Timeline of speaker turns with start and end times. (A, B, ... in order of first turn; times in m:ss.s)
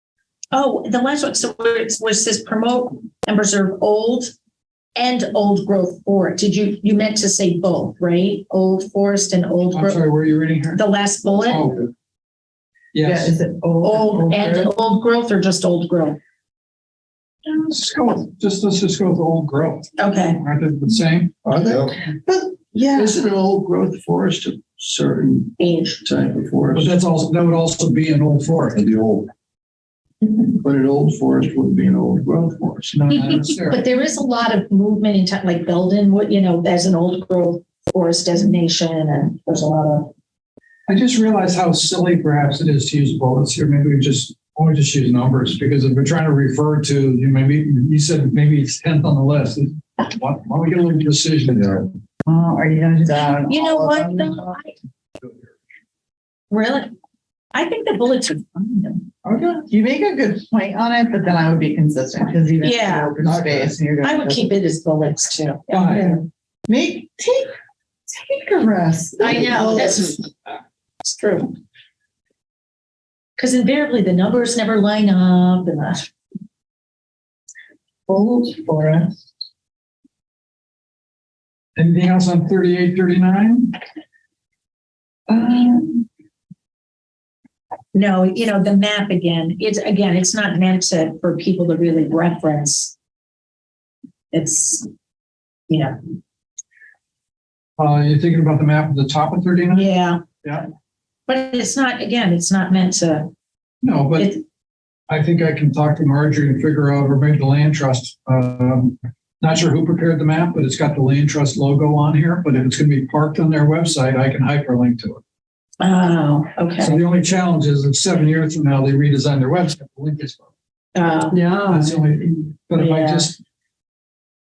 0:00.5-0:04.3 A
0:05.0-0:10.0 A
0:09.7-0:10.8 B
0:10.7-0:11.8 A
0:11.4-0:11.9 B
0:12.9-0:13.3 B
0:13.0-0:14.7 C
0:13.8-0:16.2 A
0:17.4-0:21.4 B
0:20.0-0:20.4 A
0:21.4-0:22.0 D
0:22.0-0:23.2 C
0:22.9-0:26.9 D
0:25.6-0:26.0 A
0:26.7-0:28.9 B
0:28.8-0:29.3 D
0:30.2-0:33.0 D
0:32.9-0:33.8 B
0:33.1-0:40.1 A
0:40.9-0:51.9 B
0:52.2-0:54.6 C
0:53.5-0:54.8 A
0:56.5-0:56.9 A
0:57.5-0:59.1 A
0:59.2-1:04.5 C
1:02.6-1:03.2 A
1:04.0-1:06.2 A
1:05.7-1:06.2 B
1:06.7-1:07.5 C
1:08.1-1:10.0 C
1:09.2-1:10.3 A
1:11.0-1:11.5 A
1:13.4-1:16.1 A
1:18.1-1:19.2 C
1:21.8-1:23.8 B
1:25.3-1:26.1 C
1:27.9-1:33.0 A
1:34.3-1:34.9 A
1:35.7-1:36.0 A
1:37.8-1:39.9 B
1:39.7-1:40.2 A
1:41.3-1:43.3 A
1:43.8-1:44.4 B
1:45.1-1:55.2 B
1:55.8-1:57.0 A
1:56.8-2:00.5 B
2:00.9-2:01.4 A
2:01.6-2:03.4 B
2:02.8-2:03.3 A